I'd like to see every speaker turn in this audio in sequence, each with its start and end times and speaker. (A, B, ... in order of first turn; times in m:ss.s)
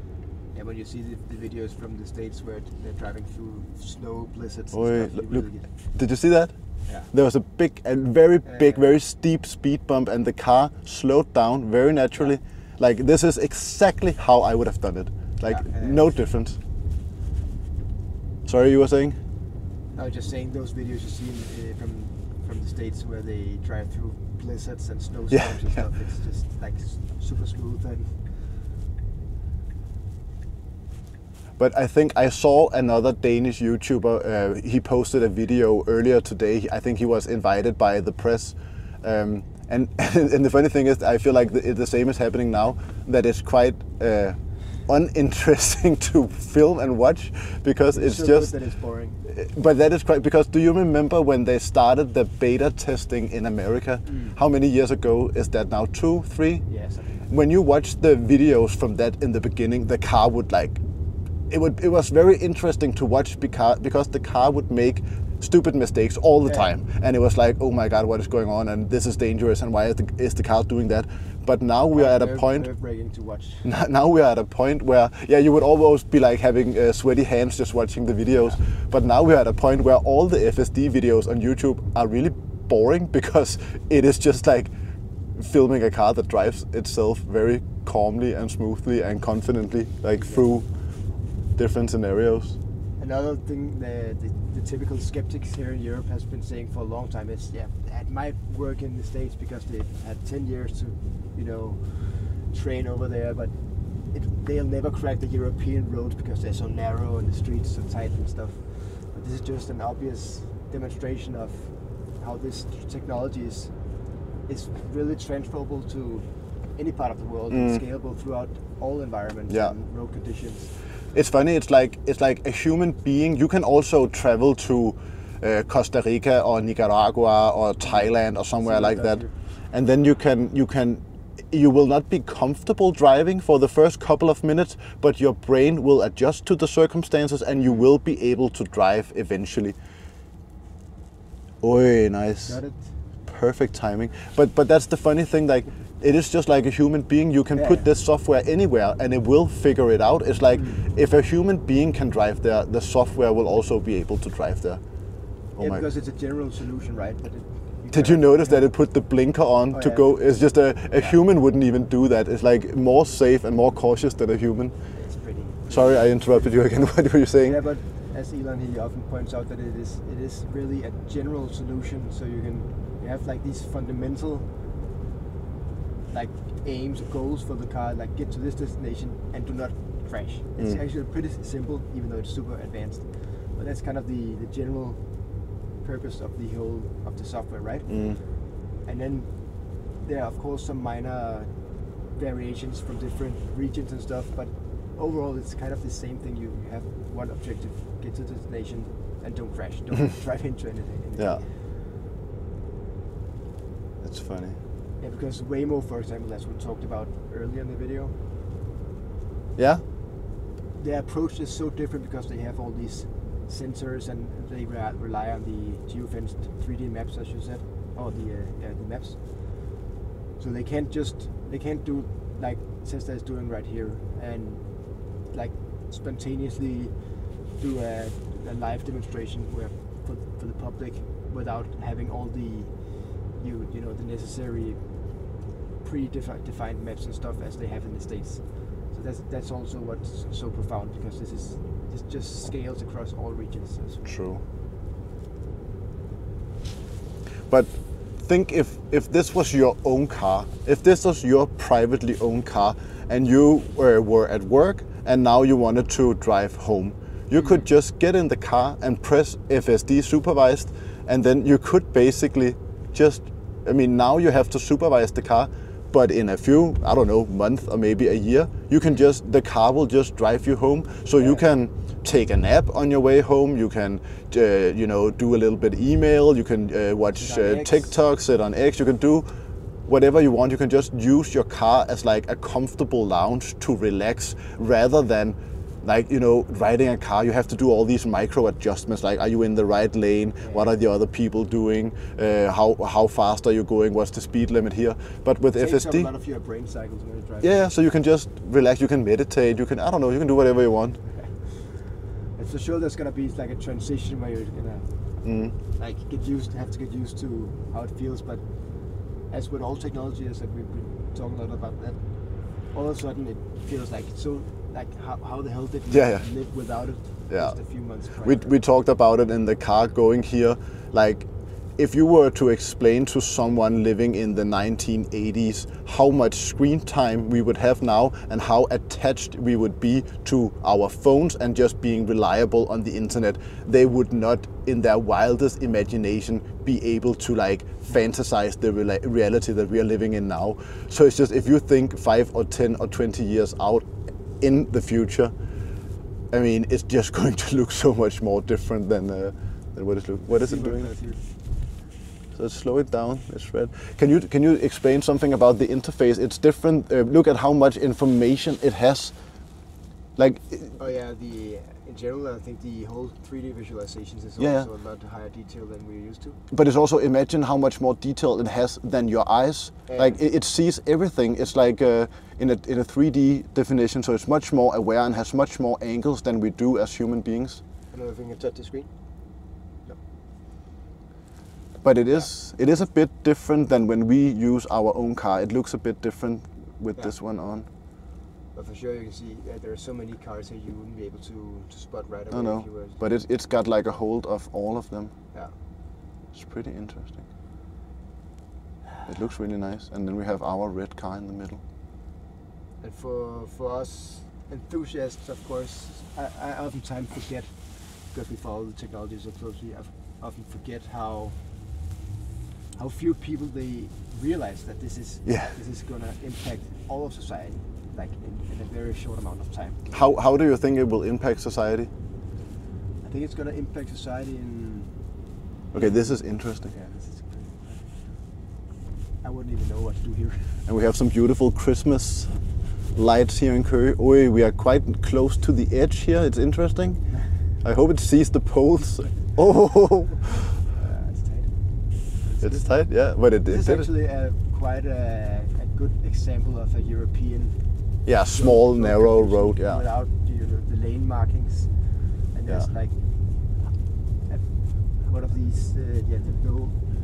0:00.5-0:05.7 A
0:04.7-0:06.5 B
0:06.9-0:07.1 A
0:07.1-0:16.6 B
0:08.4-0:08.9 A
0:15.4-0:16.1 A
0:18.4-0:19.2 B
0:19.9-0:28.1 A
0:25.3-0:25.8 B
0:31.6-0:48.5 B
0:47.9-0:49.2 A
0:49.3-0:56.6 B
0:54.0-0:54.4 A
0:56.6-0:57.3 A
0:57.3-1:00.8 B
1:01.5-1:12.7 B
1:06.4-1:06.8 A
1:11.9-1:13.7 A
1:13.6-1:24.7 B
1:25.4-1:30.7 B
1:30.1-1:30.5 A
1:31.6-1:32.6 B
1:33.0-1:43.5 A
1:44.1-1:53.7 A
1:54.5-2:00.7 A
1:57.5-1:57.8 B
1:59.5-1:59.7 B
2:01.1-2:19.8 B
2:07.8-2:09.3 A
2:21.6-2:22.6 B
2:22.4-2:23.0 A
2:23.2-2:34.8 B
2:27.5-2:27.9 A
2:30.5-2:30.9 A
2:35.6-2:35.8 B
2:35.6-2:38.7 A
2:37.9-2:44.7 B
2:39.7-2:41.2 A
2:44.9-2:54.5 A
2:45.7-2:47.6 B
2:56.1-3:05.0 A
3:05.8-3:08.1 A
3:07.9-3:08.2 B
3:08.8-3:09.3 A
3:10.0-3:11.5 A
3:12.1-3:21.6 A
3:24.0-3:24.6 B
3:25.0-3:28.1 A
3:29.6-3:29.8 B
3:30.8-3:39.2 A
3:40.4-3:44.6 A
3:45.3-3:46.9 A
3:47.6-3:52.7 A
3:53.4-3:54.8 A
3:55.8-4:04.1 A
4:04.0-4:04.4 B
4:07.5-4:39.3 B
4:17.3-4:17.6 A
4:31.2-4:31.4 A
4:37.2-4:38.0 A
4:39.9-4:56.1 B
4:50.4-4:50.8 A
4:55.5-4:57.7 A
4:57.4-5:01.0 B
5:01.1-5:04.9 A
5:05.2-5:05.5 B
5:05.8-5:08.4 A
5:09.3-5:12.0 A
5:12.7-5:18.5 A
5:15.9-5:16.2 B
5:17.3-5:17.6 B
5:18.2-5:43.8 B
5:44.4-5:45.3 B
5:46.3-5:50.9 B
5:50.3-5:51.2 A
5:52.3-5:59.1 B
6:00.2-6:00.8 B
6:00.8-6:06.4 A
6:04.4-6:04.7 B
6:06.5-6:17.6 B
6:09.9-6:10.2 A
6:17.9-6:18.9 A
6:21.8-6:27.7 B
6:28.5-6:33.0 A
6:32.3-6:35.1 B
6:36.3-6:37.2 B
6:39.1-6:41.6 B
6:42.8-6:51.4 A
6:52.8-6:59.8 A
6:55.2-6:55.6 B
6:59.9-7:01.9 B
7:03.0-7:04.9 A
7:05.7-7:07.9 A
7:05.7-7:06.7 B
7:09.2-7:10.6 A
7:10.7-7:12.3 B
7:12.9-7:17.0 B
7:17.6-7:20.4 B
7:20.7-7:21.5 A
7:22.2-7:22.7 A
7:22.4-7:23.9 B
7:23.4-7:27.6 A
7:28.0-7:29.8 B
7:28.2-7:31.7 A
7:32.3-7:32.9 A
7:35.0-7:36.9 A